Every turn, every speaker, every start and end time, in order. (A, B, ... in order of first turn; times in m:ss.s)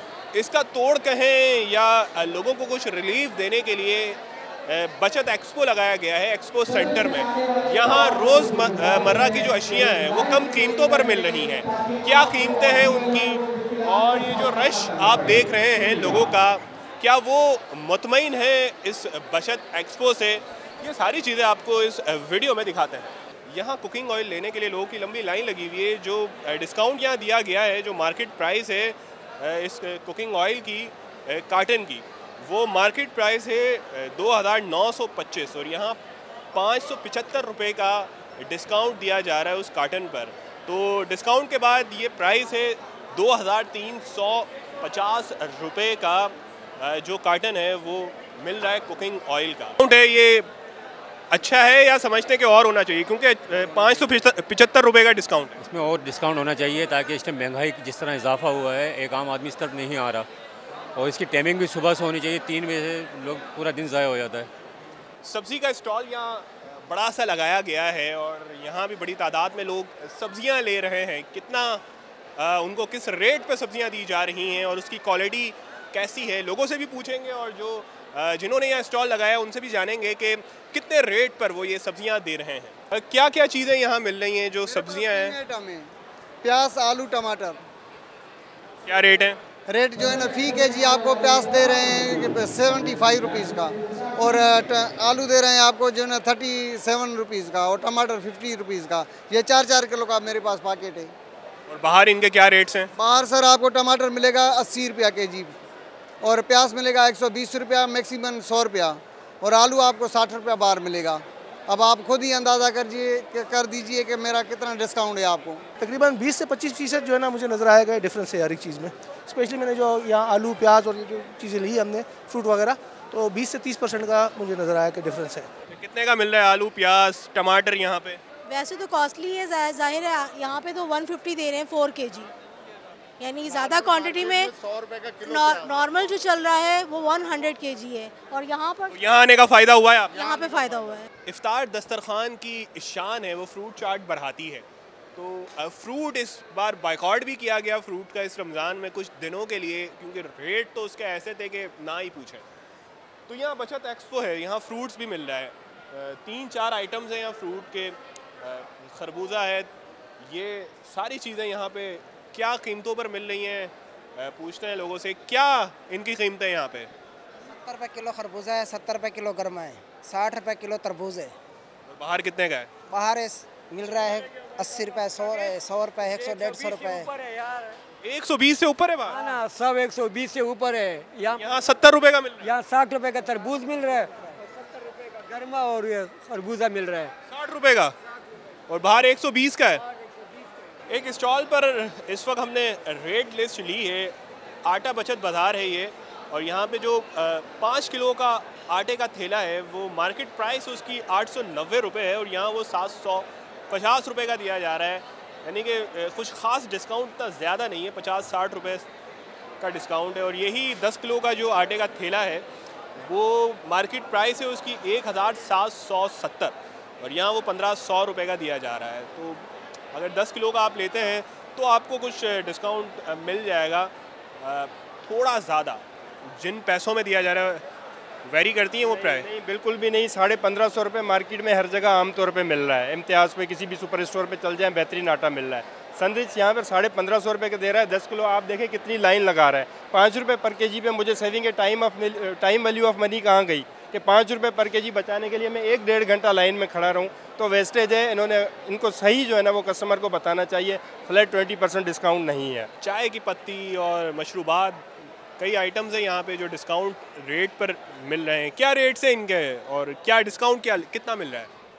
0:00.3-0:36.0 A
0:36.5-0:50.5 A
0:51.3-0:55.6 A
0:55.6-1:00.3 B
1:01.0-1:04.5 B
1:05.3-1:11.8 A
1:12.4-1:25.4 A
1:24.7-1:25.9 C
1:26.4-1:27.6 C
1:28.8-1:29.4 A
1:29.7-1:41.1 C
1:41.7-1:42.9 A
1:43.0-1:45.5 C
1:46.2-1:55.6 C
1:55.8-2:05.5 D
2:05.7-2:08.2 A
2:08.5-2:12.3 E
2:13.2-2:19.0 E
2:18.9-2:20.4 A
2:20.1-2:21.1 E
2:21.2-2:32.4 A
2:33.3-2:39.7 A
2:40.3-2:46.9 A
2:47.5-2:51.4 F
2:51.9-2:52.7 A
2:52.9-2:57.1 F
2:56.2-2:56.7 A
2:57.2-2:57.7 G
2:58.0-2:59.3 A
2:59.1-3:01.4 G
3:01.3-3:02.5 A
3:02.4-3:04.2 G
3:05.1-3:07.1 G
3:07.3-3:07.9 A
3:08.7-3:09.8 A
3:10.9-3:28.9 A
3:29.6-3:32.4 A
3:33.0-3:47.6 A
3:48.3-3:49.3 A
3:48.8-4:12.7 H
4:12.8-4:14.8 A
4:15.4-4:21.5 A